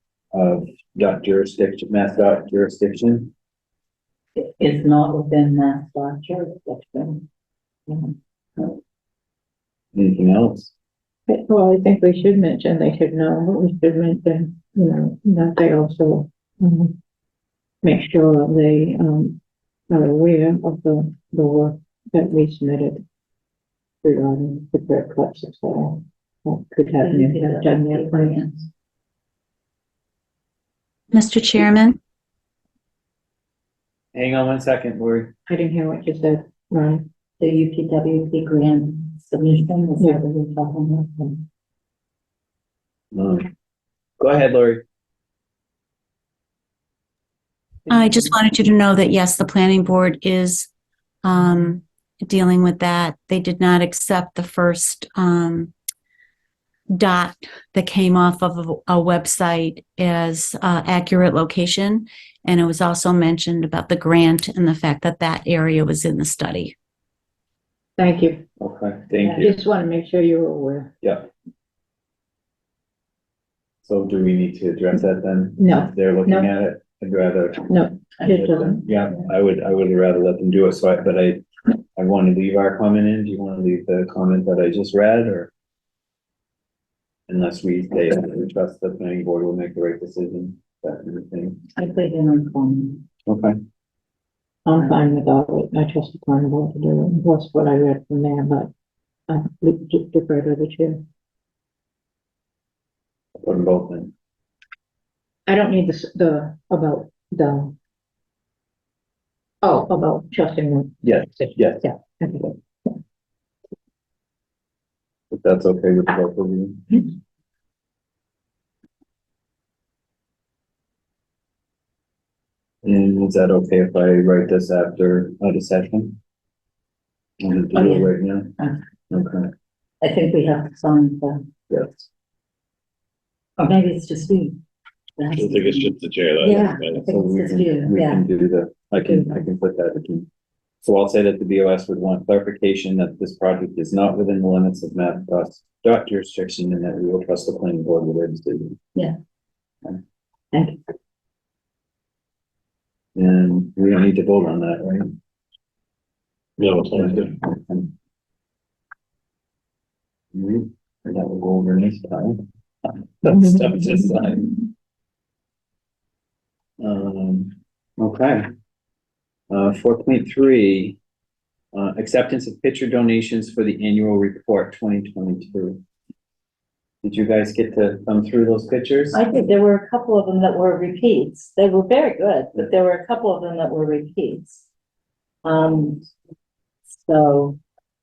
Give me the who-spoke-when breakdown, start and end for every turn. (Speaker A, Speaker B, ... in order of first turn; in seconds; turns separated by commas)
Speaker A: 0.3-3.3, Speaker B: 4.4-7.2, Speaker B: 7.9-8.7, Speaker A: 9.9-10.7, Speaker C: 11.3-16.9, Speaker C: 17.8-23.0, Speaker C: 24.0-28.5, Speaker B: 27.0-28.7, Speaker D: 31.1-32.0, Speaker A: 34.1-35.3, Speaker C: 35.5-37.0, Speaker B: 37.4-41.4, Speaker A: 43.1-43.5, Speaker A: 44.2-44.8, Speaker D: 47.9-50.7, Speaker D: 51.2-55.7, Speaker D: 57.0-66.7, Speaker C: 68.0-68.4, Speaker A: 68.6-69.5, Speaker C: 69.2-70.9, Speaker A: 71.0-71.3, Speaker A: 73.8-81.4, Speaker C: 75.6-76.5, Speaker C: 77.7-78.8, Speaker B: 78.2-78.8, Speaker A: 81.9-85.5, Speaker A: 87.3-91.6, Speaker B: 91.7-93.0, Speaker A: 93.2-93.6, Speaker C: 94.7-98.7, Speaker B: 94.8-95.1, Speaker C: 99.3-101.0, Speaker A: 103.4-104.1, Speaker C: 105.5-107.7, Speaker C: 109.6-110.9, Speaker A: 111.0-111.9, Speaker C: 111.8-112.9, Speaker A: 115.3-117.1, Speaker A: 122.8-126.2, Speaker A: 127.4-128.5, Speaker B: 127.7-128.8, Speaker A: 129.1-129.5, Speaker B: 130.0-131.4, Speaker A: 131.7-132.1, Speaker B: 133.6-134.6, Speaker B: 135.2-138.2, Speaker E: 135.3-137.1, Speaker A: 137.1-140.3, Speaker B: 139.0-139.4, Speaker A: 140.8-148.8, Speaker B: 150.5-150.8, Speaker A: 153.1-155.1, Speaker E: 156.6-157.3, Speaker A: 156.9-157.9, Speaker A: 160.3-164.6, Speaker A: 166.8-168.4, Speaker A: 169.5-171.0, Speaker A: 171.7-175.8, Speaker A: 177.0-179.2, Speaker B: 179.1-184.7, Speaker B: 185.4-186.1, Speaker B: 186.9-187.6